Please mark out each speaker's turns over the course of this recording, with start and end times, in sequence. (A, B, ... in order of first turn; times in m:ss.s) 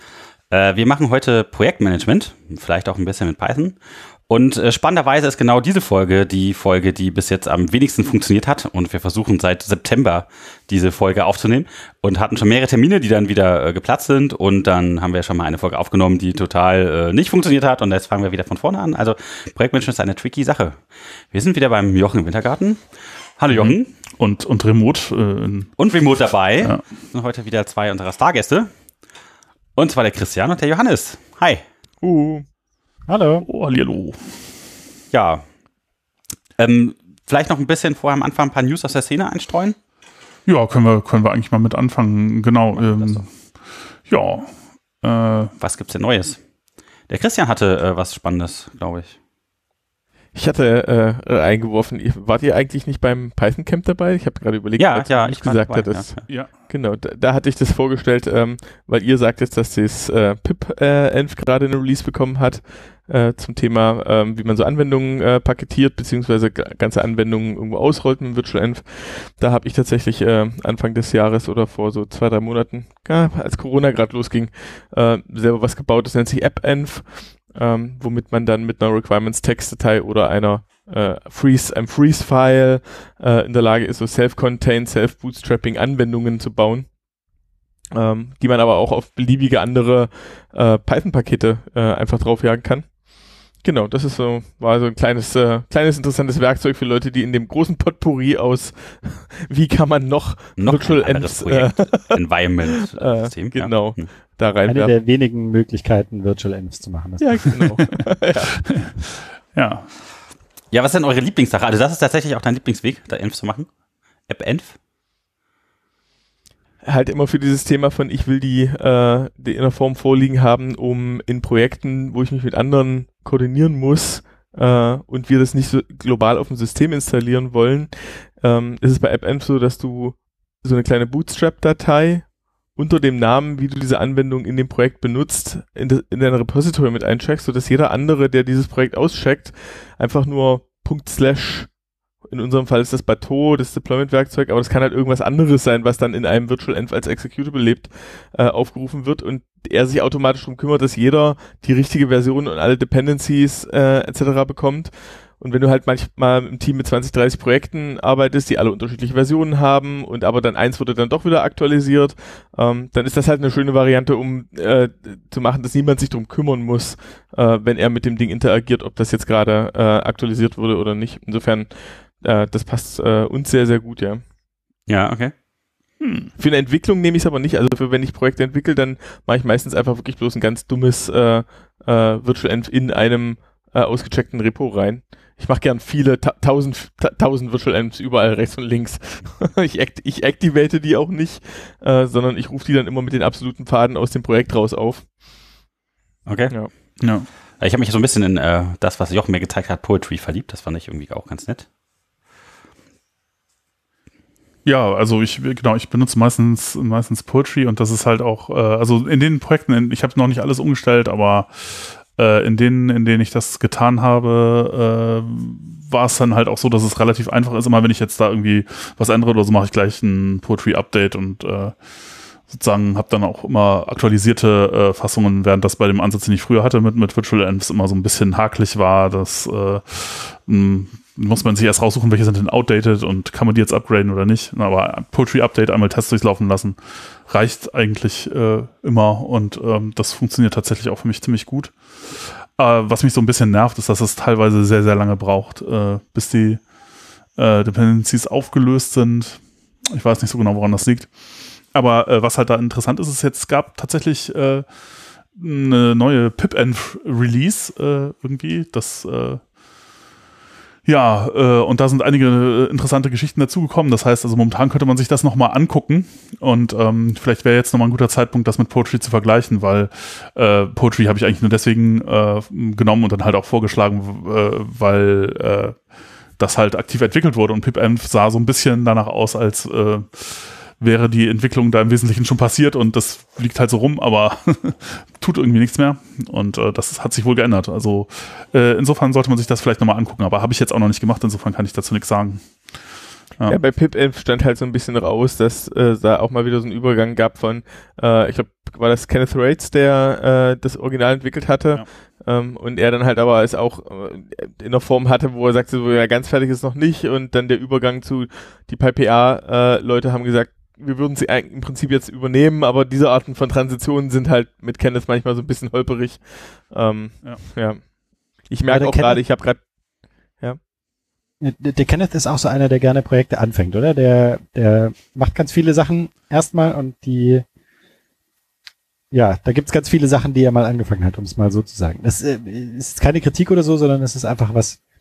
0:00.5-0:22.8 A
0:23.4-0:23.9 A
0:23.5-0:25.7 B
0:25.8-0:28.7 A
0:29.8-0:31.6 A
0:32.0-0:32.4 C
0:33.1-0:33.4 D
0:33.5-0:34.4 B
0:35.1-0:35.4 A
0:36.6-0:39.8 A
0:40.4-0:43.3 B
0:42.8-0:43.2 A
0:44.0-0:45.5 B
0:45.6-0:46.4 A
0:47.1-0:49.1 A
0:50.3-1:26.9 C
0:54.8-0:56.2 A
1:27.9-1:32.9 C
1:33.6-1:42.2 C
1:40.6-1:44.1 A
1:43.0-1:44.9 C
1:44.7-1:47.5 D
1:47.2-1:48.6 C
1:49.5-1:49.9 B
1:50.7-1:53.7 A
1:54.3-1:54.8 A
1:56.8-2:21.7 C
2:22.3-2:54.2 C
2:54.9-2:55.3 A
2:56.0-2:56.3 B
2:56.4-3:15.1 C
3:16.2-3:17.0 A
3:17.0-3:17.3 B
3:17.6-3:21.7 A
3:24.6-3:41.8 B
3:42.5-4:06.6 B
4:07.4-4:11.1 B
4:11.7-4:14.6 B
4:15.3-4:19.4 B
4:20.9-4:35.8 B
4:36.4-4:53.6 B
4:53.5-5:17.9 C
5:18.4-5:19.6 C
5:18.7-5:19.2 D
5:21.4-5:27.4 D
5:29.1-5:34.8 D